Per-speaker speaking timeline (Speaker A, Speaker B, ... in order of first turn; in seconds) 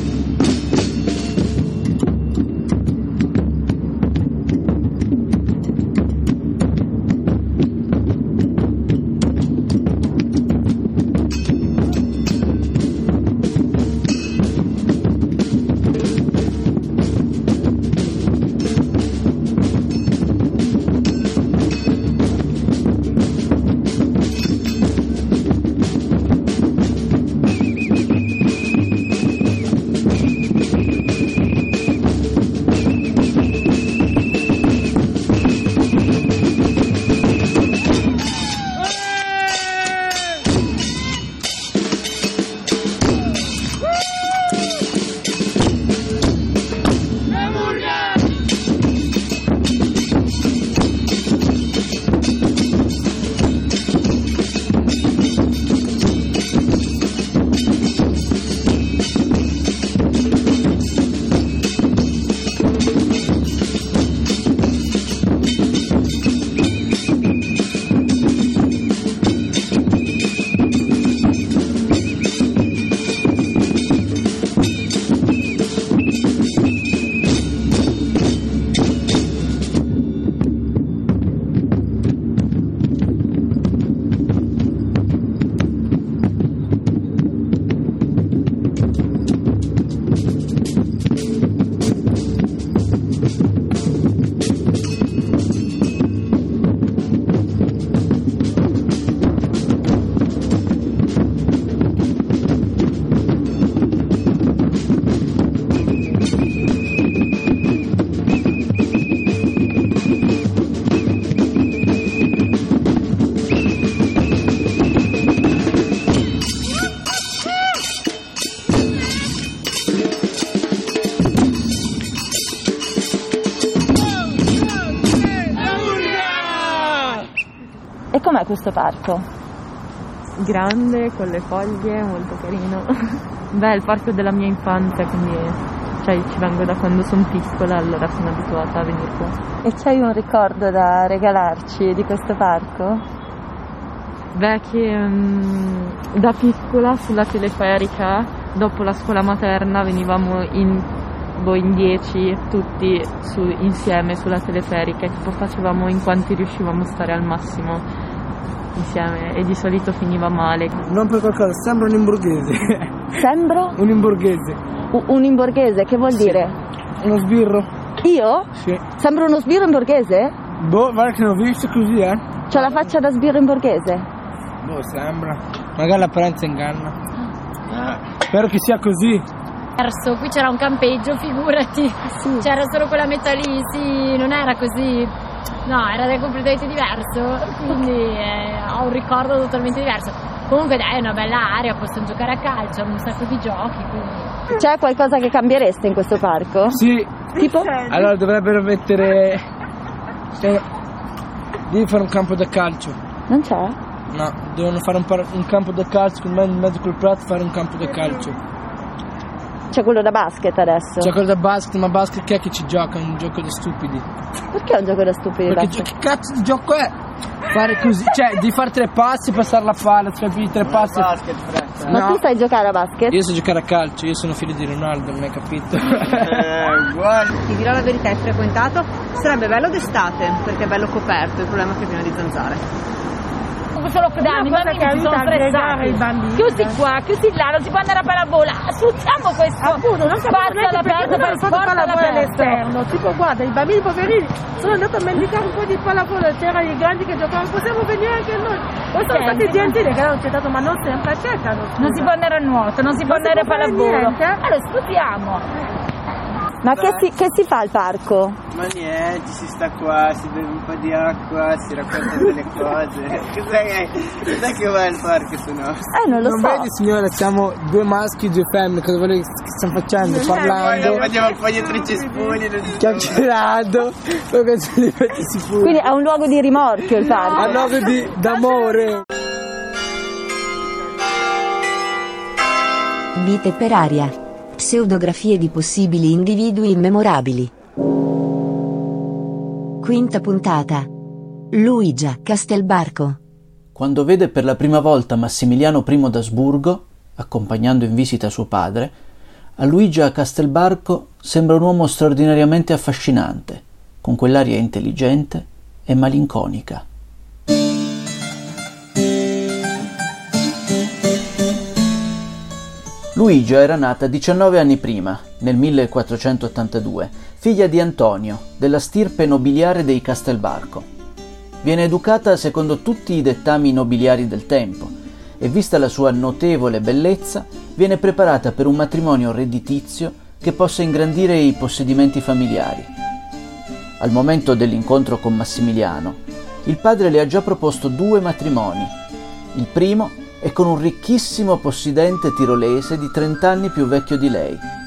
Speaker A: 128.1-129.2, 139.6-143.0, 163.2-163.8, 164.9-166.6, 168.0-168.5, 169.0-170.3, 172.5-174.1, 182.1-182.5, 194.5-196.8, 197.4-197.8, 203.3-203.8, 209.7-211.1, 214.5-215.9, 221.9-223.2, 256.6-258.4, 265.9-266.7, 275.6-277.6
Speaker B: 130.4-139.4, 144.3-157.8, 158.8-160.8, 192.0-192.3, 192.8-194.3
Speaker C: 160.8-162.9, 163.8-164.6, 166.1-166.4, 167.0-167.7, 170.6-172.9, 174.6-177.0, 178.3-179.2, 196.7-197.3, 197.9-199.4, 201.7-203.0, 204.1-208.4, 211.0-214.1, 215.5-216.9, 217.5-221.1, 221.9-222.2, 223.1-226.4, 266.1-271.1, 272.8-275.8, 277.4-279.0
Speaker D: 177.7-178.0, 220.6-222.0, 226.2-227.3, 256.7-257.1, 258.5-265.9, 270.2-273.2
Speaker E: 179.8-180.6, 182.4-185.1, 185.7-188.0, 189.3-189.8, 233.8-242.6, 249.0-249.8, 251.8-255.4
Speaker F: 227.4-232.6
Speaker G: 234.2-236.8, 239.6-252.1, 253.1-254.4
Speaker H: 283.1-287.5, 289.8-290.9, 291.5-293.2
Speaker I: 293.8-298.9, 299.6-306.8, 313.1-320.9, 321.6-332.9, 334.0-338.9, 339.5-344.6